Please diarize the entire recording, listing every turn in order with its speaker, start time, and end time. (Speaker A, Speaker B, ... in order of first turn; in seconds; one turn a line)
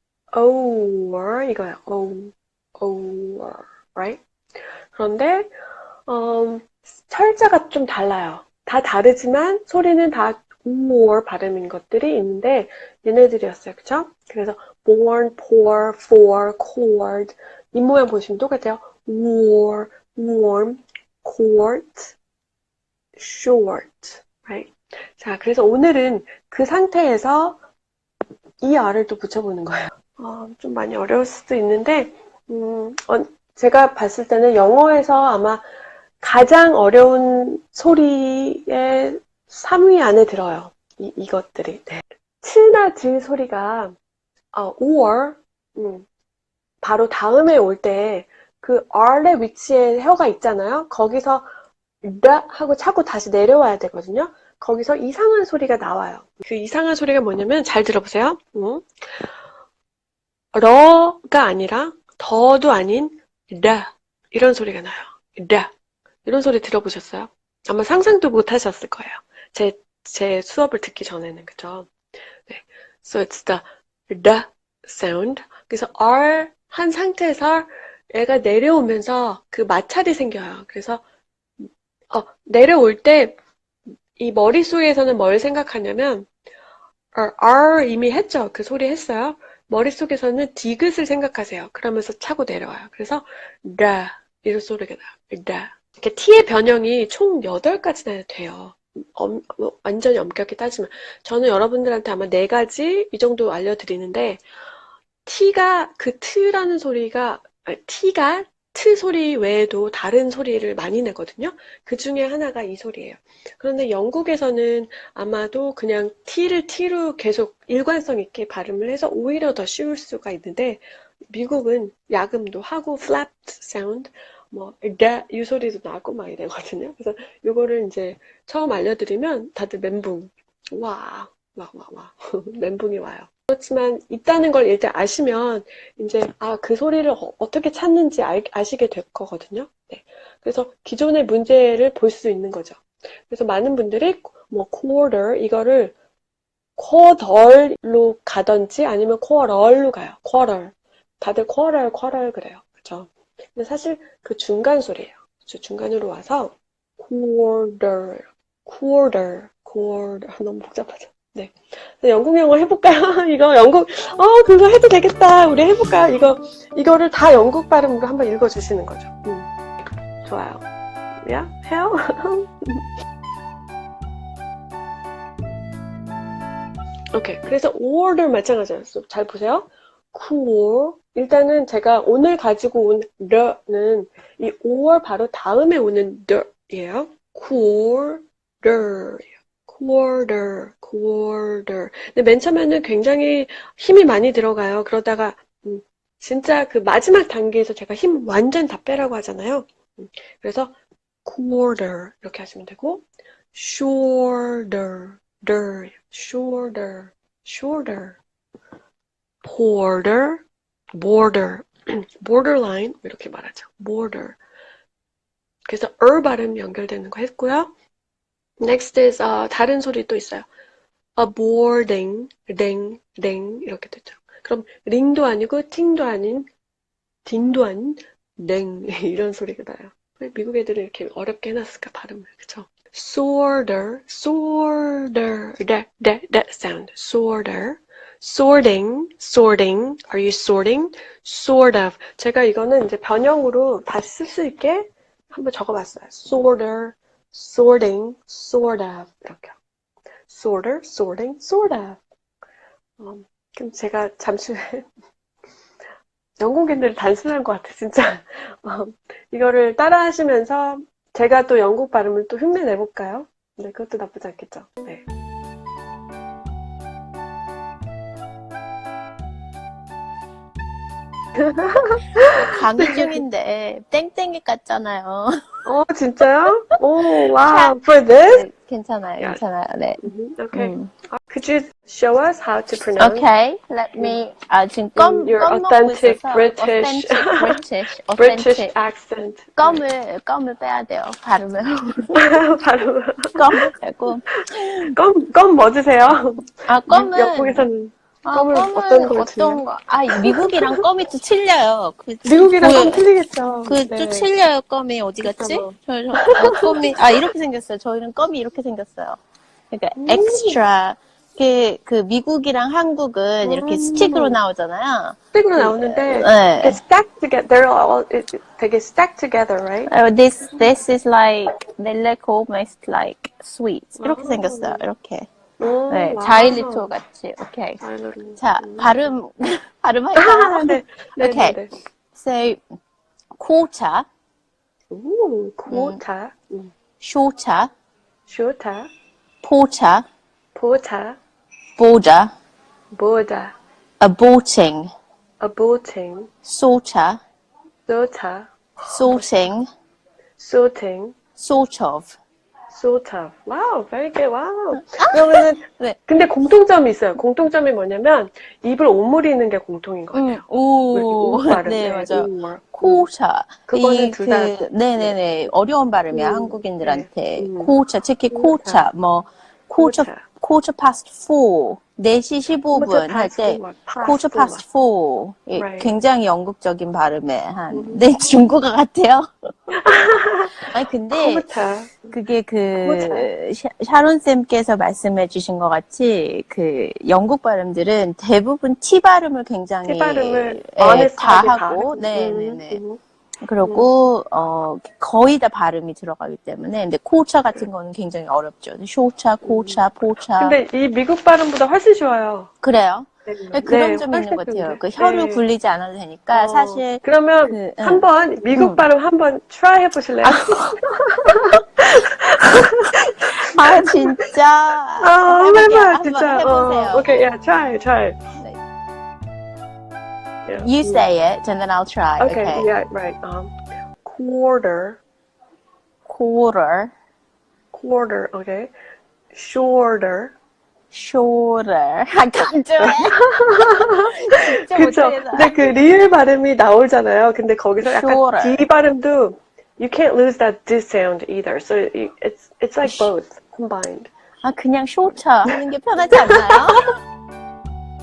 Speaker A: 0.3-4.2
Speaker A: 4.9-5.5
Speaker A: 6.1-22.1
Speaker A: 23.2-27.6
Speaker A: 28.6-35.6
Speaker A: 36.2-43.9
Speaker A: 44.5-46.0
Speaker A: 46.8-51.5
Speaker A: 52.0-59.3
Speaker A: 60.5-65.7
Speaker A: 66.2-71.9
Speaker A: 72.5-81.0
Speaker A: 81.6-83.4
Speaker A: 84.2-86.3
Speaker A: 87.1-104.4
Speaker A: 105.2-145.9
Speaker A: 146.8-169.5
Speaker A: 170.2-170.6
Speaker A: 171.2-172.8
Speaker A: 177.1-208.2
Speaker A: 209.4-210.4
Speaker A: 210.9-214.4
Speaker A: 215.7-217.7
Speaker A: 218.6-220.5
Speaker A: 221.2-226.5
Speaker A: 227.2-249.6
Speaker A: 250.3-252.0
Speaker A: 253.0-254.9
Speaker A: 256.4-265.0
Speaker A: 271.4-273.2
Speaker B: 272.4-275.4
Speaker A: 275.6-278.5
Speaker B: 277.4-280.9
Speaker A: 280.0-283.3
Speaker B: 283.0-288.7
Speaker A: 284.9-287.6
Speaker A: 288.2-289.8
Speaker B: 289.6-292.1
Speaker A: 292.1-293.7
Speaker B: 293.3-294.9
Speaker A: 294.3-300.8
Speaker B: 296.7-297.6
Speaker B: 298.2-303.1
Speaker A: 302.2-304.3
Speaker B: 303.6-309.2
Speaker A: 305.2-306.9
Speaker B: 309.7-316.8
Speaker A: 309.9-310.6
Speaker A: 313.4-314.4
Speaker A: 315.3-319.9
Speaker B: 319.9-325.3
Speaker A: 324.0-324.8
Speaker A: 325.6-326.9
Speaker B: 325.9-327.8
Speaker A: 327.8-328.9
Speaker B: 328.4-331.6
Speaker A: 330.2-331.7
Speaker B: 332.1-332.6
Speaker B: 333.4-334.1
Speaker A: 334.9-336.7
Speaker B: 335.7-336.0
Speaker B: 337.0-337.7
Speaker A: 338.3-338.9
Speaker B: 339.4-340.1
Speaker A: 340.5-341.2
Speaker B: 341.8-342.3
Speaker A: 342.9-343.5
Speaker B: 344.0-344.9
Speaker A: 345.4-346.3
Speaker B: 346.4-347.2
Speaker A: 347.9-349.3
Speaker B: 348.9-349.6
Speaker A: 350.4-351.1
Speaker B: 351.4-352.1
Speaker A: 352.7-363.1
Speaker B: 354.8-356.0
Speaker B: 360.1-379.5
Speaker A: 363.7-365.2
Speaker A: 366.1-367.8
Speaker A: 368.3-368.8
Speaker A: 369.8-370.2
Speaker A: 372.7-374.6
Speaker A: 375.6-375.9
Speaker A: 377.7-378.1
Speaker A: 379.7-382.1
Speaker B: 380.6-381.4
Speaker B: 382.1-392.8
Speaker A: 382.8-383.3
Speaker A: 389.8-393.0
Speaker B: 393.4-400.6
Speaker A: 393.6-393.9
Speaker A: 399.4-399.8
Speaker A: 400.4-402.5
Speaker B: 402.6-408.8
Speaker A: 403.2-405.4
Speaker A: 406.3-414.2
Speaker B: 410.2-410.8
Speaker B: 413.4-417.2
Speaker A: 415.0-418.2
Speaker A: 420.4-421.1
Speaker B: 420.6-422.7
Speaker A: 422.2-425.0
Speaker B: 426.1-426.9
Speaker A: 427.7-428.7
Speaker A: 429.3-430.3
Speaker B: 430.9-433.2
Speaker A: 432.8-444.1
Speaker B: 434.1-435.6
Speaker B: 437.8-438.6
Speaker B: 442.8-443.1
Speaker B: 444.4-446.9
Speaker A: 445.5-446.8